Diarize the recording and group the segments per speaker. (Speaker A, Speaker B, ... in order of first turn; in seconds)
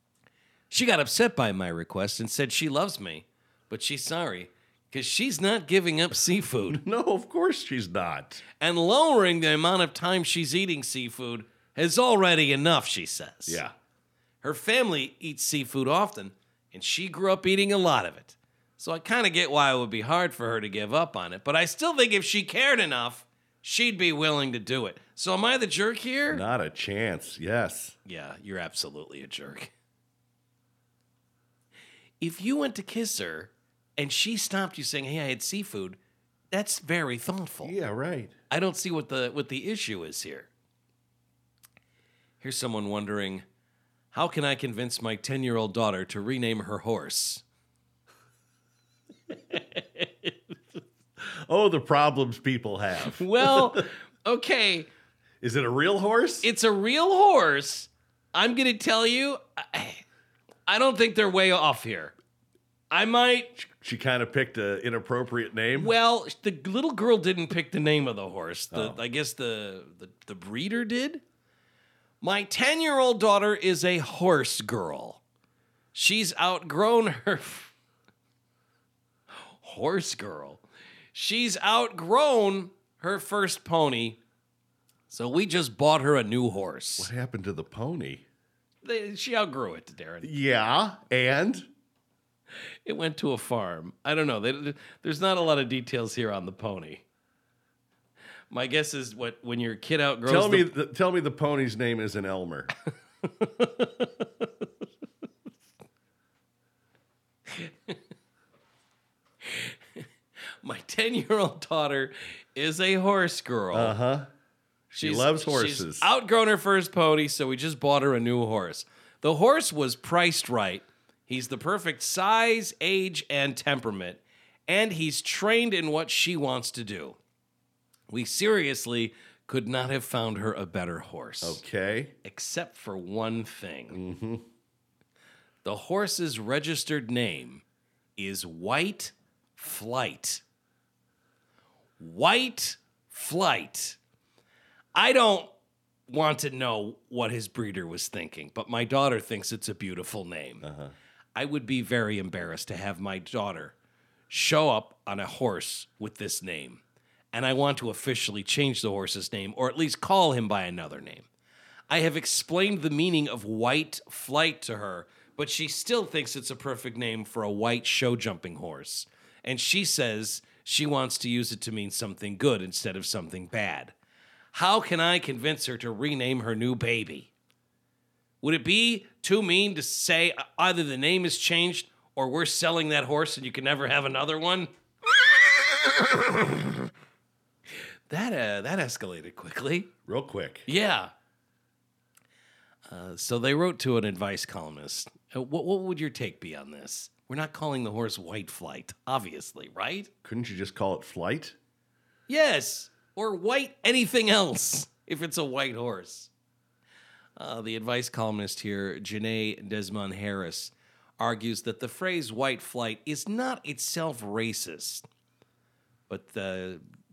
Speaker A: 0.7-6.8, 8.6-13.6, 14.4-26.4, 28.1-29.7, 32.2-36.0, 36.5-37.8, 38.5-40.5, 42.4-43.5, 44.1-47.4, 53.2-54.9, 56.4-60.0, 60.7-62.1, 62.9-63.5, 65.7-71.2, 72.2-75.2, 75.9-77.7, 79.6-80.6, 81.1-84.2, 85.1-87.1, 88.8-90.3, 92.8-97.0, 98.5-100.7, 103.4-104.5, 107.5-108.0, 109.5-110.1, 110.6-114.0, 115.0-127.2, 128.1-131.6, 132.2-134.0, 135.6-137.6, 138.2-140.4, 142.0-144.0, 144.9-145.5, 146.1-150.7, 151.3-153.8, 154.3-156.8, 157.3-161.3, 161.9-173.9, 174.5-177.3, 178.4-184.7, 188.1-189.9, 190.7-191.1, 192.9-200.1, 202.3-206.3, 207.4-215.1, 216.1-216.8
Speaker B: 6.7-8.4, 13.5-13.7, 26.3-28.0, 37.6-38.4, 51.2-53.8, 55.4-56.5, 63.6-65.9, 68.7-69.0, 87.0-88.2, 90.2-91.7, 100.2-102.7, 113.7-114.3, 114.9-116.1, 131.4-132.2, 133.9-134.5, 150.6-150.9, 190.1-190.7, 200.2-201.6